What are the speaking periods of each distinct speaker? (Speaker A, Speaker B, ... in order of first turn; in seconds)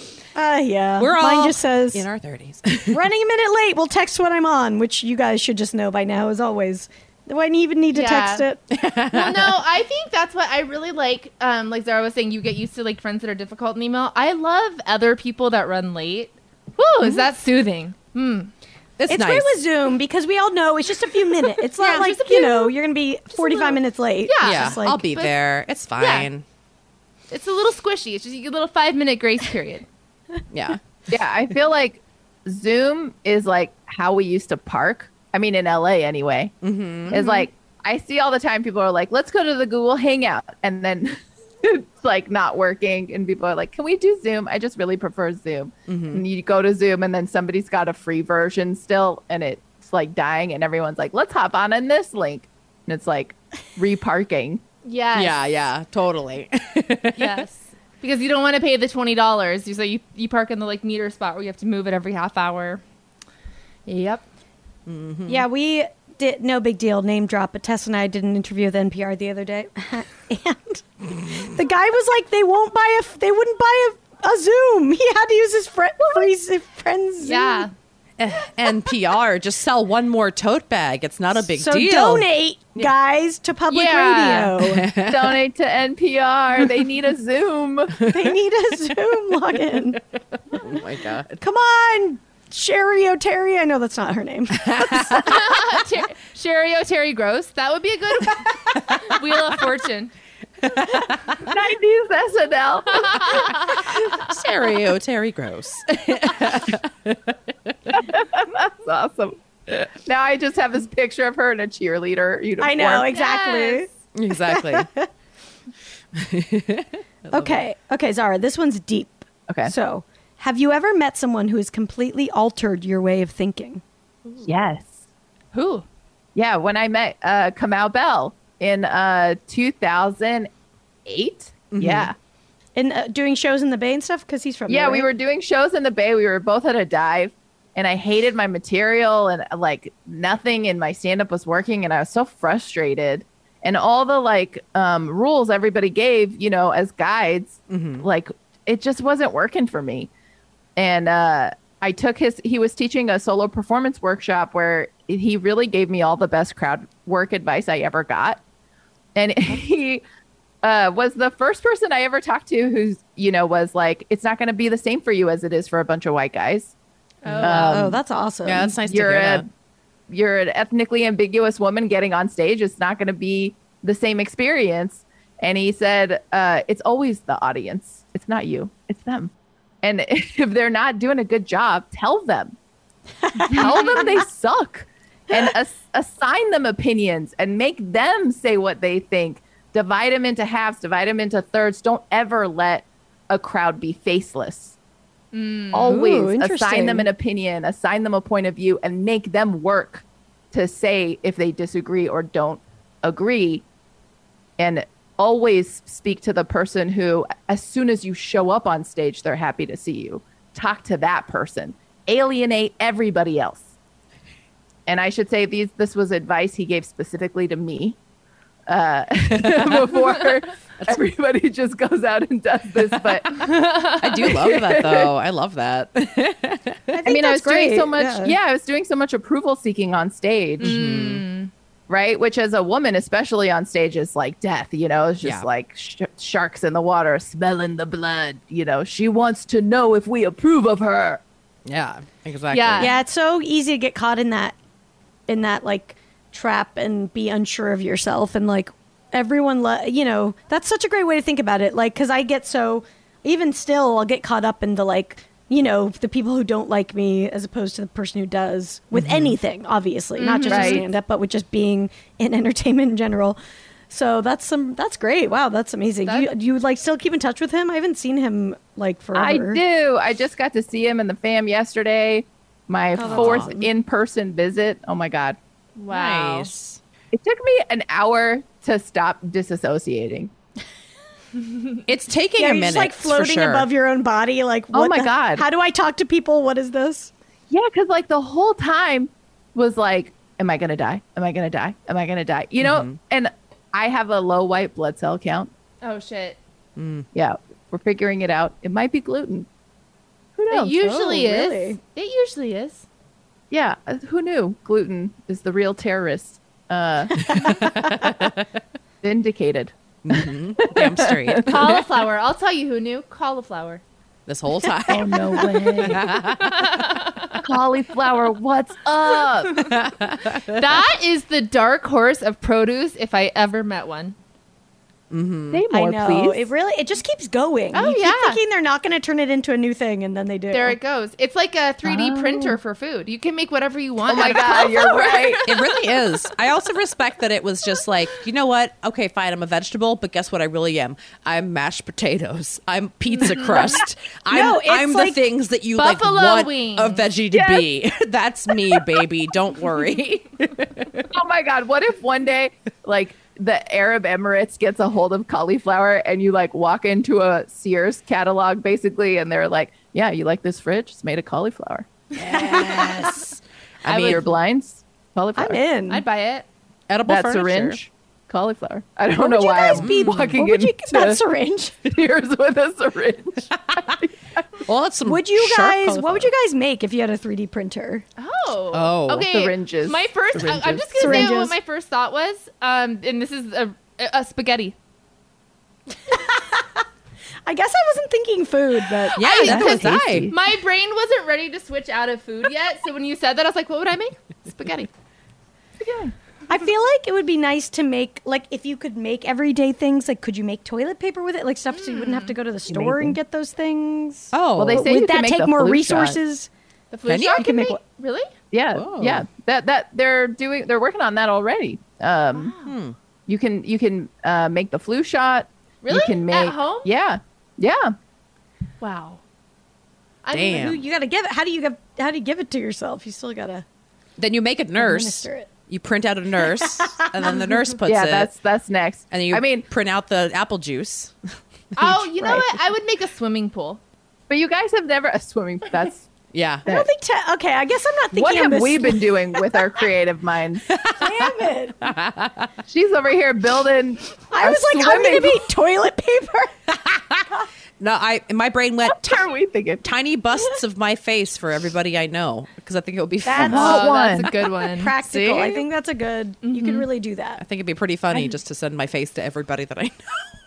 Speaker A: 0.3-2.0, 2.9-8.6, 19.1-25.1, 65.3-77.7, 81.4-84.8, 88.1-90.0, 91.4-95.1, 112.6-115.1, 117.3-123.8, 132.8-135.1, 167.4-168.8, 195.8-197.1, 226.9-228.3, 242.8-244.6, 245.3-263.4, 263.9-269.6, 272.9-273.7, 282.4-287.1, 300.5-301.8, 325.7-330.8, 344.3-345.2, 362.3-363.2, 365.4-366.0, 369.1-371.7, 375.0-378.0, 381.0-381.6, 386.4-386.6, 387.4-389.2, 396.5-406.5, 407.4-407.8, 420.5-423.6, 424.8-425.5, 426.4-427.1, 432.2-432.5, 436.6-439.6, 440.9-441.8, 444.3-446.5, 453.2-457.4
Speaker B: 1.0-3.0, 8.7-9.6, 19.0-19.6, 24.4-26.4, 30.5-30.8, 36.6-37.2, 45.9-46.2, 55.1-57.4, 64.8-65.4, 78.2-82.9, 84.6-85.4, 90.5-91.3, 94.6-95.4, 98.3-99.2, 100.6-101.3, 103.8-107.3, 114.1-114.9, 116.1-117.6, 131.7-132.1, 147.7-148.0, 167.3-167.9, 168.4-169.4, 224.0-227.0, 230.6-231.2, 241.7-242.9, 258.9-259.4, 273.1-273.5, 275.9-276.8, 281.9-283.7, 292.6-292.9, 296.8-297.1, 307.2-308.4, 310.0-311.8, 314.3-316.7, 319.6-320.6, 325.1-325.6, 335.4-351.0, 362.1-364.2, 366.9-367.8, 369.7-370.4, 374.6-376.3, 378.7-379.3, 389.2-390.3, 404.3-404.9, 407.1-407.7, 408.7-409.2, 412.6-412.9, 420.3-420.8, 424.2-428.3, 429.1-432.0, 436.3-436.6, 440.7-441.3, 441.8-442.5, 446.7-447.3, 447.8-449.3, 449.8-453.8, 455.0-455.6, 457.4-460.3
Speaker C: 7.9-8.4, 9.1-18.5, 21.8-22.7, 23.3-25.3, 26.0-26.3, 27.3-29.9, 37.2-37.4, 54.8-55.4, 57.2-62.8, 63.9-64.2, 77.2-77.7, 83.7-84.5, 95.2-100.1, 103.0-103.8, 113.1-113.9, 125.5-125.8, 167.2-167.7, 183.6-184.0, 195.3-196.0, 223.4-224.2, 230.6-231.5, 242.5-242.9, 260.2-260.8, 266.0-266.3, 275.8-276.5, 281.5-281.8, 295.8-296.4, 300.5-302.9, 311.4-313.8, 316.4-317.4, 320.5-324.1, 327.7-328.4, 330.5-335.8, 343.1-343.8, 345.8-347.0, 363.9-364.2, 365.9-366.4, 378.2-384.7, 389.1-394.9, 401.7-402.3, 406.9-408.3, 412.3-412.7, 415.8-416.9, 418.8-419.2, 420.2-420.7, 431.8-433.8, 453.5-454.9, 456.4-456.9
Speaker D: 31.1-36.5, 37.1-54.6, 85.1-87.9, 101.4-103.5, 107.9-113.1, 124.4-124.9, 126.3-130.5, 131.1-132.1, 134.7-150.1, 150.8-158.4, 159.1-160.0, 160.6-166.7, 167.4-168.0, 168.9-169.5, 170.1-182.6, 183.4-194.8, 195.7-203.6, 204.6-213.7, 214.9-218.0, 218.7-223.4, 224.3-225.1, 227.0-230.7, 231.9-241.2, 260.5-260.8, 269.1-275.4, 277.1-280.3, 284.7-285.4, 287.5-295.5, 297.1-299.5, 300.4-300.8, 303.5-307.7, 309.0-311.4, 314.9-316.2, 317.4-319.7, 325.5-326.5, 331.8-332.6, 334.1-335.4, 347.3-347.6, 351.1-361.9, 363.9-365.6, 367.1-371.2, 371.8-374.6, 379.2-381.3, 389.4-390.4, 395.8-396.1, 402.7-403.2, 404.6-406.2, 408.5-412.5, 413.3-417.9, 427.9-429.6, 434.3-436.1, 438.1-440.7, 442.7-445.4, 448.9-449.8, 453.3-454.3